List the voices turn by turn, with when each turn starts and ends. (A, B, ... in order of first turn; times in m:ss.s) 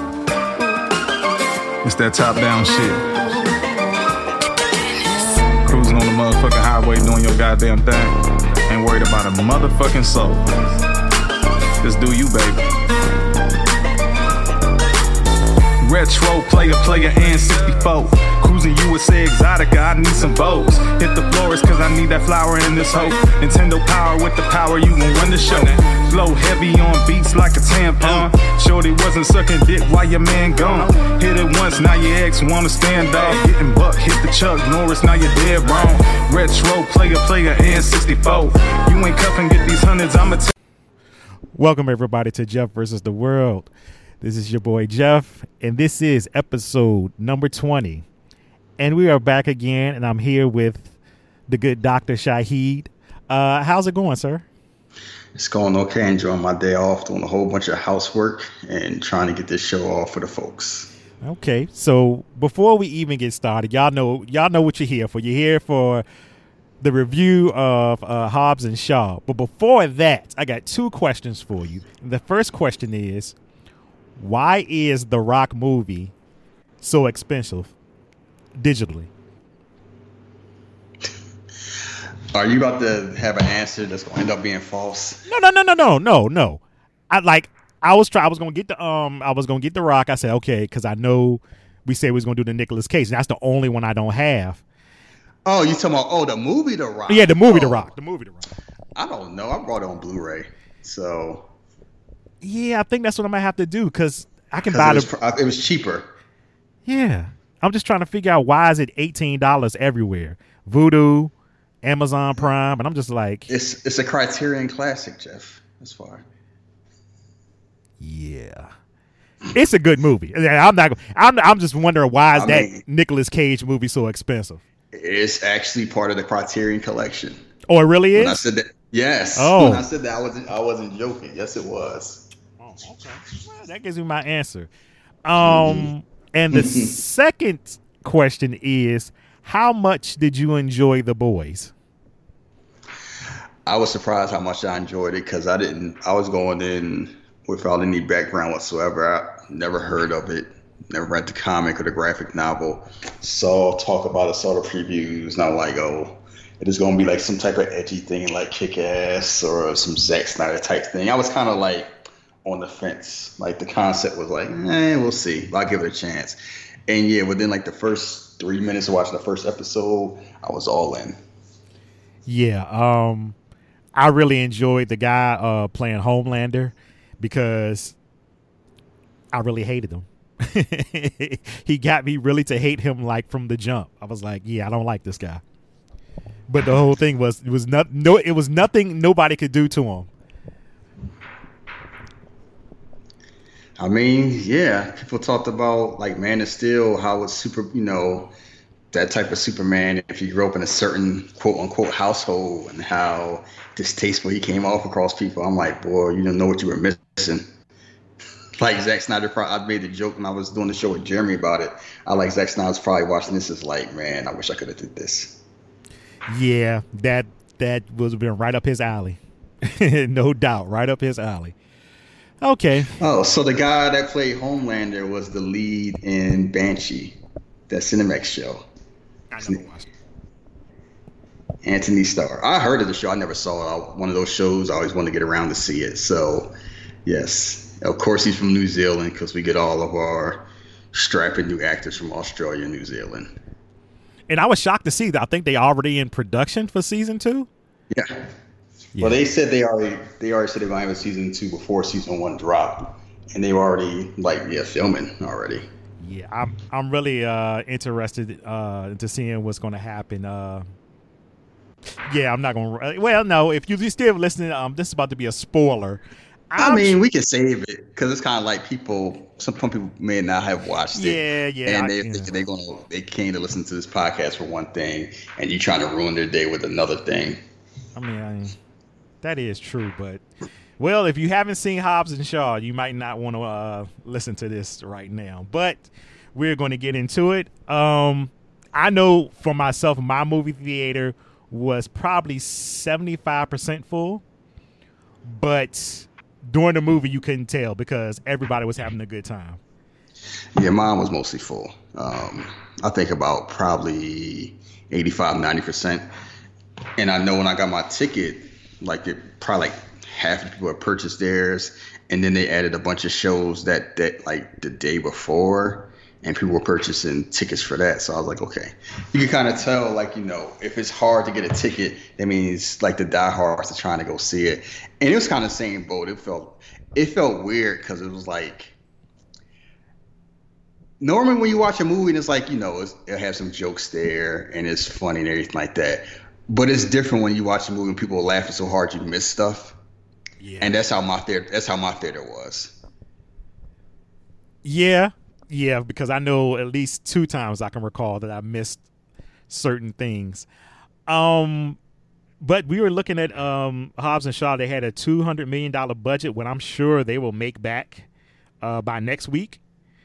0:01.8-0:03.0 A
0:05.6-0:08.2 A
0:08.7-0:10.4 A
0:11.8-0:12.6 A
0:15.8-0:40.5 A
0:41.5-0:43.7 B
0:44.2-0:48.0 B
0:48.8-0:50.9 B
0:51.5-0:54.4 B
0:55.3-1:00.9 C
1:01.2-1:06.0 B
1:06.8-1:13.3 B
1:14.2-1:16.1 B
1:16.8-1:17.7 B
1:18.6-1:19.1 B
1:22.3-1:25.2 C
1:25.2-1:34.6 B
1:35.4-1:37.9 C
1:37.1-1:38.5 B
1:39.0-1:41.5 C
1:42.4-1:45.1 B
1:44.7-1:46.1 C
1:46.8-1:51.3 B
1:51.8-1:53.5 B
1:53.5-1:56.2 C
1:58.0-1:58.7 B
1:59.5-2:04.6 B
2:02.3-2:02.8 C
2:04.9-2:07.4 C
2:07.7-2:08.4 B
2:08.1-2:12.2 C
2:09.3-2:09.8 B
2:12.6-2:14.7 B
2:15.2-2:21.7 B
2:15.4-2:15.9 C
2:16.5-2:16.9 C
2:23.6-2:41.9 C
2:42.4-2:51.2 C
2:52.2-2:53.3 B
2:53.9-2:58.0 B
2:59.3-3:05.4 B
3:06.5-3:10.1 B
3:13.8-3:18.3 C
3:18.9-3:27.5 C
3:28.6-3:35.4 C
3:36.3-3:41.6 B
3:42.4-3:42.9 B
3:43.0-3:47.2 C
3:47.7-3:48.6 C
3:49.3-3:49.9 B
3:51.6-3:56.5 C
3:57.0-4:03.3 C
4:04.3-4:07.5 B
4:07.9-4:08.2 C
4:09.0-4:09.2 B
4:09.0-4:15.7 C
4:16.0-4:20.6 B
4:22.1-4:27.0 B
4:26.6-4:37.4 C
4:30.9-4:32.3 B
4:37.9-4:38.6 B
4:39.2-4:40.2 B
4:40.8-4:54.2 B
4:55.2-4:59.6 B
5:00.6-5:06.1 C
5:07.0-5:28.8 C
5:31.0-5:39.8 C
5:40.4-5:40.8 B
5:40.6-5:42.7 C
5:44.6-5:48.8 B
5:49.5-5:50.5 B
5:51.1-5:51.8 B
5:52.4-5:58.1 B
5:58.6-5:59.6 B